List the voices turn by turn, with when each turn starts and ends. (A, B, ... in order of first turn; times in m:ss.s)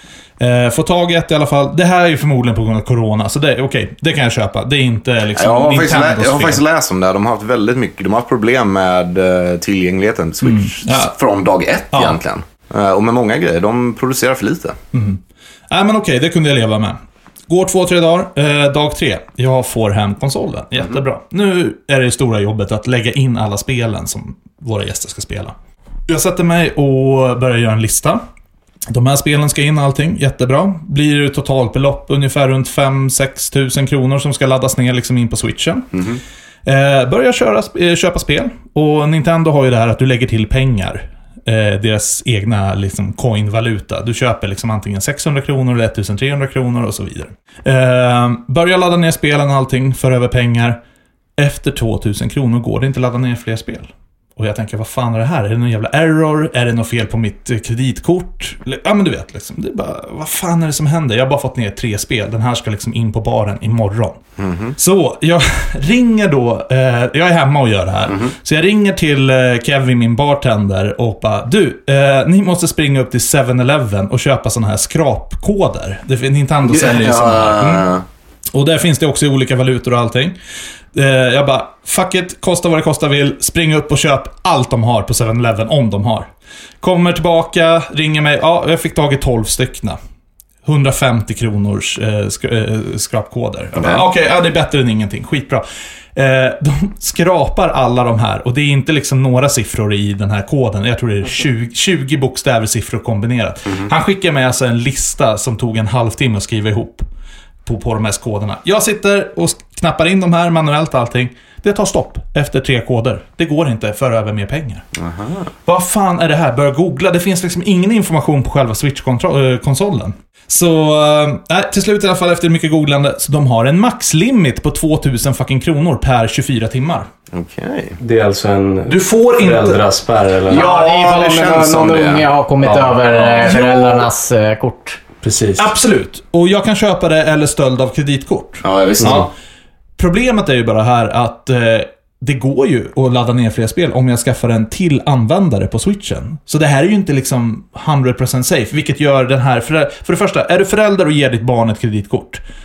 0:00.4-0:06.6 A
0:05.4-0:14.8 B
0:10.4-0:11.1 A
0:11.9-0:12.2 A
0:14.9-0:25.5 A
0:26.1-0:28.2 A
0:28.9-0:35.9 A
0:36.6-0:50.8 A
0:51.4-1:04.2 A
1:04.4-1:04.8 B
1:04.8-1:17.9 A
1:16.6-1:18.0 B
1:18.5-1:20.4 A
1:20.9-1:26.3 A
1:26.8-1:30.0 A
1:30.6-1:35.6 A
1:33.8-1:34.0 B
1:36.1-1:47.0 A
1:47.6-1:54.8 A
1:55.0-1:55.5 B
1:55.6-2:07.1 A
2:07.3-2:08.0 B
2:08.0-2:10.7 C
2:08.9-2:09.8 A
2:10.5-2:12.2 B
2:10.5-2:15.0 D
2:12.6-2:13.1 C
2:13.5-2:13.9 A
2:15.2-2:15.7 C
2:15.6-2:19.3 A
2:18.6-2:19.3 B
2:19.0-2:19.3 C
2:20.0-2:32.4 A